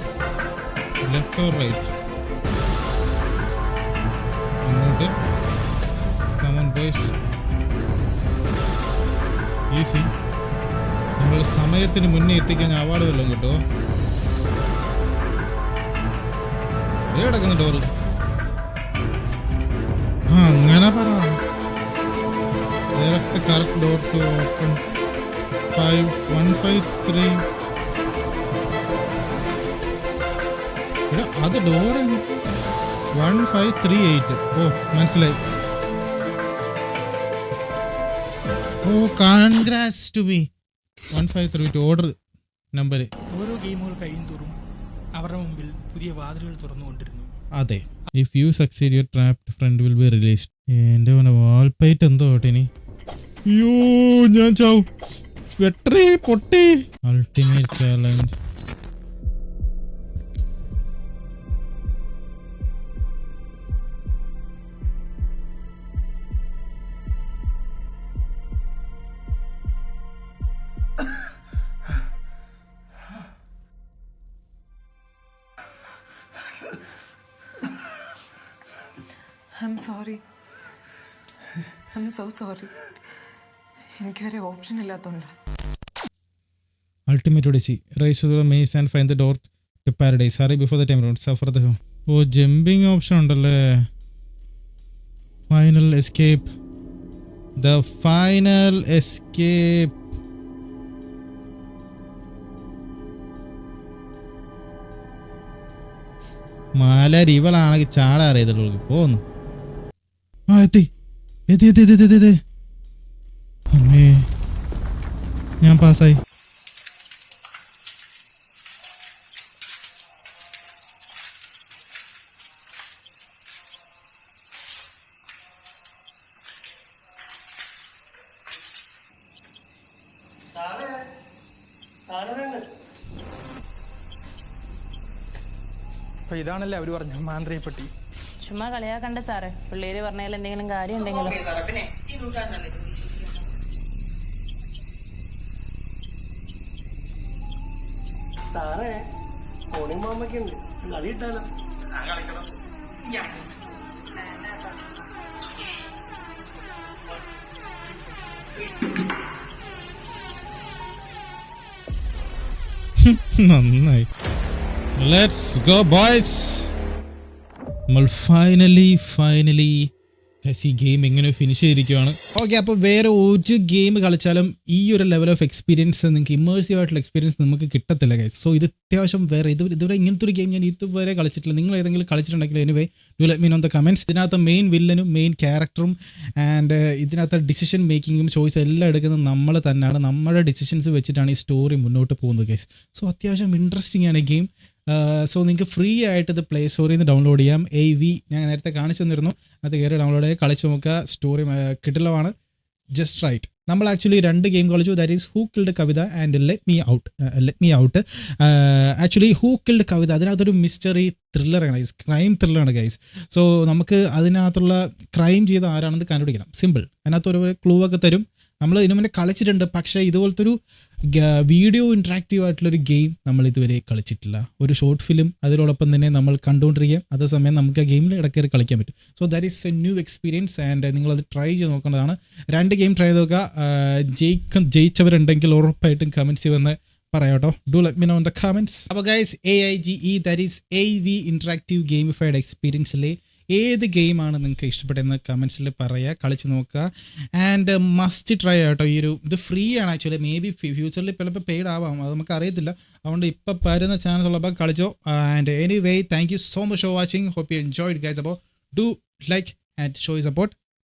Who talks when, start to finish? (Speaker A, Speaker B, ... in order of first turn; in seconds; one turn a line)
Speaker A: 1.0-1.9
Speaker A: 4.6-5.1
Speaker A: 6.4-7.1
Speaker A: 9.7-10.1
Speaker A: 11.2-13.6
Speaker A: 17.1-17.9
Speaker A: 20.3-21.4
Speaker A: 22.9-24.8
Speaker A: 25.7-27.4
Speaker A: 31.1-32.3
Speaker A: 33.2-35.4
Speaker A: 38.8-40.5
Speaker A: 41.1-42.1
Speaker A: 42.7-43.1
Speaker B: 43.3-44.5
Speaker B: 45.2-47.3
Speaker A: 47.5-52.7
Speaker A: 53.5-54.9
Speaker A: 55.6-58.3
Speaker C: 79.5-80.2
Speaker C: 81.9-82.7
Speaker C: 84.0-85.3
Speaker A: 87.1-93.9
Speaker A: 95.5-96.5
Speaker A: 97.6-99.9
Speaker A: 106.8-109.2
Speaker A: 110.5-110.9
Speaker A: 111.5-112.4
Speaker A: 113.7-114.3
Speaker A: 115.6-116.2
Speaker D: 130.6-130.9
Speaker D: 132.1-132.6
Speaker B: 136.3-137.9
Speaker E: 138.4-141.7
Speaker D: 148.5-148.9
Speaker D: 149.7-151.4
Speaker D: 152.1-152.4
Speaker A: 163.0-164.1
Speaker A: 165.0-166.7
Speaker A: 167.9-169.9
Speaker A: 170.4-202.3
Speaker A: 202.9-220.6
Speaker A: 221.1-260.6